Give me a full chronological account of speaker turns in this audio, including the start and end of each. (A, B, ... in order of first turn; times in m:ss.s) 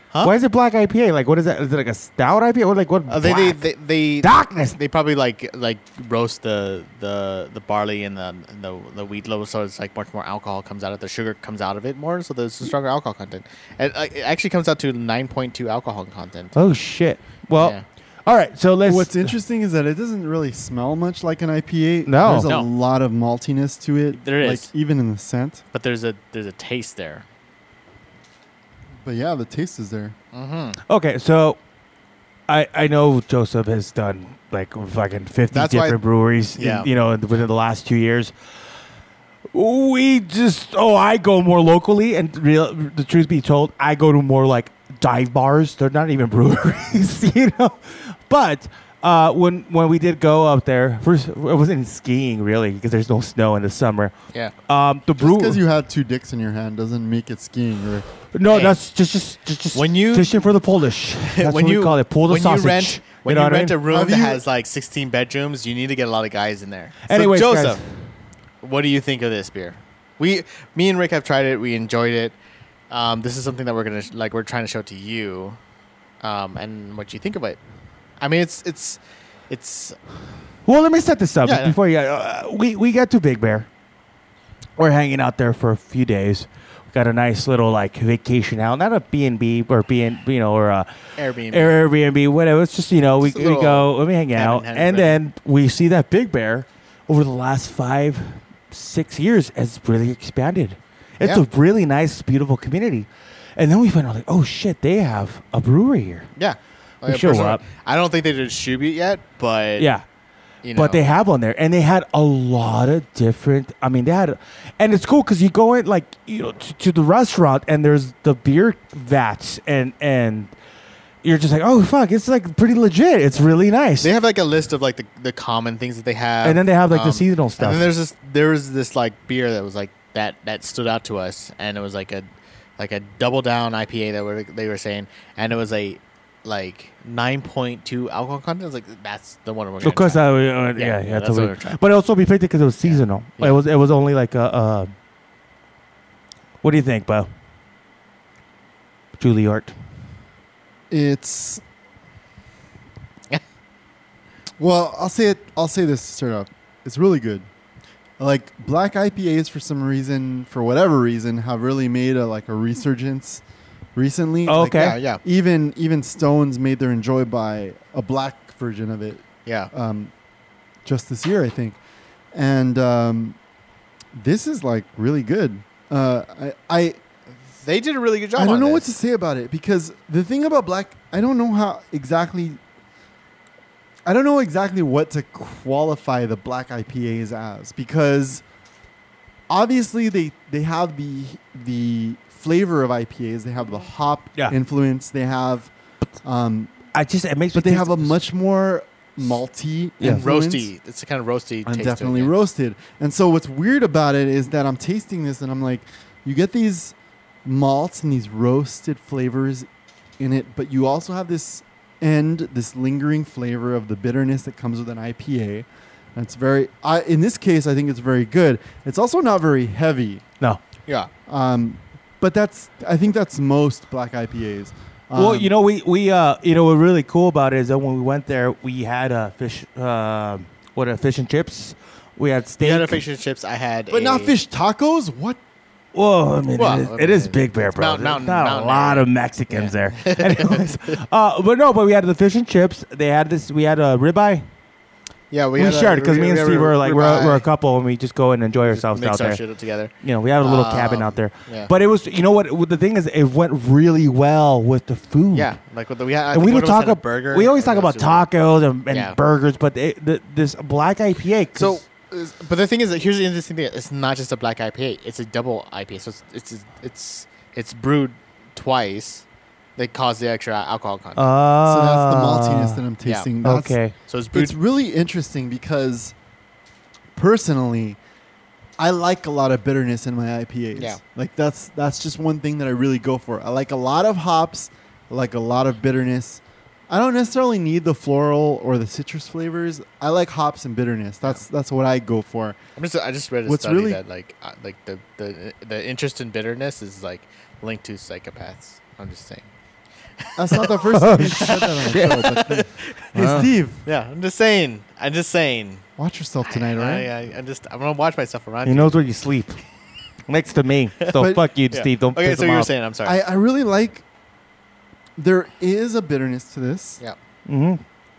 0:00.2-0:03.6 A
0:03.1-0:16.5 B
0:04.2-0:04.8 A
0:16.5-0:19.3 A
0:17.6-0:17.8 B
0:18.8-0:25.6 C
0:22.0-0:22.5 A
0:22.4-0:22.7 B
0:24.1-0:24.7 B
0:25.7-0:27.2 B
0:29.0-0:30.1 C
0:30.3-0:30.8 B
0:30.8-0:31.6 A
0:32.5-0:38.3 A
0:35.5-0:36.0 B
0:36.6-0:36.9 B
0:39.5-0:54.1 A
0:54.7-0:55.6 A
0:55.2-0:58.0 C
0:58.3-1:03.8 A
0:58.5-0:58.8 B
0:59.7-1:00.5 B
1:01.2-1:07.8 B
1:03.9-1:04.4 C
1:07.1-1:07.8 A
1:08.6-1:12.4 B
1:12.9-1:15.6 B
1:16.2-1:17.6 B
1:18.2-1:20.0 B
1:20.6-1:23.7 A
1:21.4-1:21.8 B
1:24.8-1:30.9 A
1:31.2-1:31.8 B
1:31.5-1:46.3 A
1:33.2-1:35.2 B
1:46.4-1:49.9 B
1:47.0-1:47.6 A
1:49.8-1:50.0 A
1:50.6-1:51.0 B
1:50.7-2:00.5 A
2:01.2-2:04.1 A
2:04.0-2:12.3 B
2:06.4-2:07.8 A
2:12.8-2:21.8 B
2:19.8-2:24.9 A
2:22.8-2:23.6 B
2:26.6-2:27.3 A
2:29.2-2:29.7 A
2:30.9-2:31.6 C
2:34.6-2:37.5 C
2:38.2-2:43.4 C
2:43.9-2:50.1 C
2:44.4-2:44.9 A
2:44.7-2:45.2 B
2:49.4-2:49.7 B
2:50.8-2:51.8 C
2:52.3-2:53.4 C
2:54.1-2:57.0 C
2:57.6-2:58.9 B
2:58.4-3:02.6 C
3:04.0-3:08.4 C
3:09.5-3:15.7 C
3:16.2-3:16.7 C
3:16.9-3:18.2 A
3:17.5-3:20.7 C
3:20.0-3:20.3 A
3:20.1-3:22.3 B
3:21.6-3:29.7 C
3:30.2-3:40.2 C
3:41.3-3:45.5 C
3:45.1-3:53.0 A
3:52.6-3:54.3 B
3:53.9-3:55.4 C
3:55.9-4:04.4 A
3:56.6-4:01.0 B
4:05.3-4:07.5 B
4:05.6-4:09.4 A
4:08.6-4:11.7 B
4:10.0-4:15.5 A
4:15.3-4:18.3 B
4:16.3-4:21.8 A
4:18.9-4:19.2 B
4:21.5-4:29.2 B
4:29.8-4:31.3 B
4:31.2-4:32.8 A
4:31.6-4:33.8 C
4:33.4-4:33.9 A
4:34.1-4:34.5 B
4:34.3-4:36.1 C
4:37.2-4:38.0 C
4:38.8-4:52.6 C
4:52.8-4:59.5 B
4:53.4-4:54.0 C
5:00.3-5:03.0 B
5:00.4-5:03.8 C
5:00.9-5:02.4 A
5:03.1-5:03.5 A
5:03.8-5:05.8 B
5:06.0-5:07.1 C
5:06.4-5:09.0 B
5:08.6-5:09.6 A
5:10.3-5:12.7 A
5:11.0-5:13.2 B
5:11.2-5:11.4 C
5:13.0-5:14.0 C
5:15.2-5:17.0 C
5:17.5-5:17.8 A